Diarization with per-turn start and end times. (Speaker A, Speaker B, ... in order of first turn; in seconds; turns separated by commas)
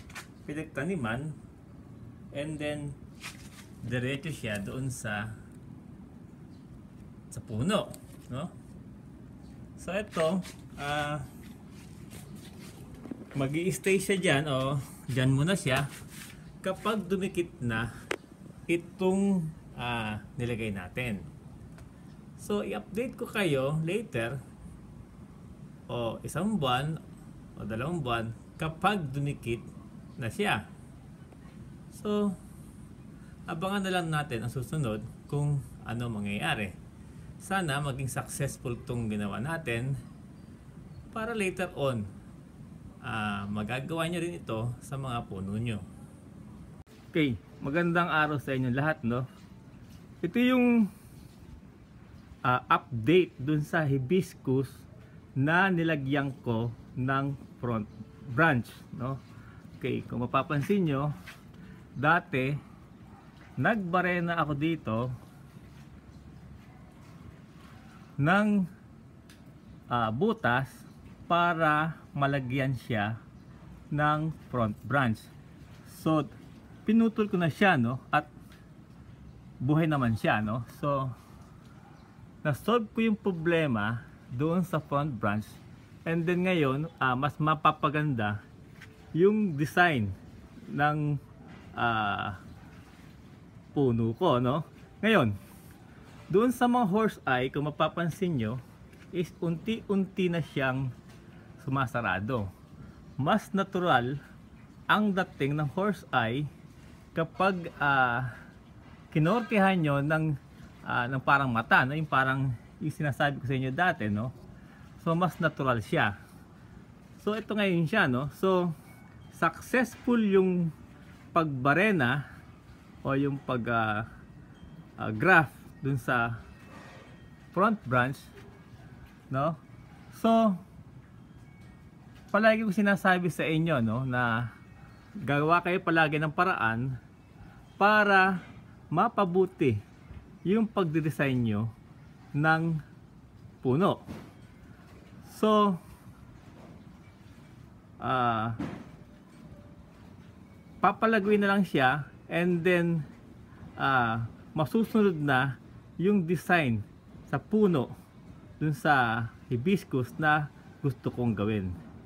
Speaker A: 0.4-1.4, Speaker A: 2.3-3.0, Speaker A: 3.8-5.3, Speaker A: 7.3-8.5, Speaker A: 9.8-11.3, Speaker A: 13.3-15.9, Speaker A: 16.6-17.9, Speaker A: 18.7-21.2, Speaker A: 22.4-24.4, Speaker A: 25.9-27.0, Speaker A: 27.6-29.7, Speaker A: 30.2-30.6, Speaker A: 31.9-32.4, Speaker A: 33.5-36.7, Speaker A: 37.4-39.9, Speaker A: 41.1-42.1, Speaker A: 43.0-45.8, Speaker A: 47.1-49.3, Speaker A: 50.2-50.9, Speaker A: 52.4-54.9, Speaker A: 55.4-59.2, Speaker A: 59.8-61.1, Speaker A: 62.0-62.6, Speaker A: 63.6-65.1, Speaker A: 68.2-68.7, Speaker A: 69.9-73.2, Speaker A: 73.9-75.3, Speaker A: 75.8-76.3, Speaker A: 76.8-78.3, Speaker A: 79.6-81.1, Speaker A: 82.4-88.4, Speaker A: 89.1-91.2, Speaker A: 91.7-92.4, Speaker A: 93.7-95.3, Speaker A: 96.3-98.6, Speaker A: 99.1-100.9, Speaker A: 101.6-102.5, Speaker A: 103.2-104.2, Speaker A: 104.9-106.5, Speaker A: 107.1-108.3, Speaker A: 109.1-114.3, Speaker A: 115.0-116.1, Speaker A: 117.2-118.7, Speaker A: 119.3-120.7, Speaker A: 121.3-122.2, Speaker A: 123.0-124.1, Speaker A: 125.0-126.4, Speaker A: 127.5-128.3, Speaker A: 129.3-129.6, Speaker A: 130.1-130.6, Speaker A: 132.3-134.5, Speaker A: 135.2-137.0, Speaker A: 137.8-138.4, Speaker A: 138.9-139.8, Speaker A: 140.4-141.7, Speaker A: 142.3-142.8, Speaker A: 143.6-144.0, Speaker A: 145.2-145.8, Speaker A: 148.0-148.6, Speaker A: 150.8-153.1, Speaker A: 153.8-157.9, Speaker A: 158.6-161.7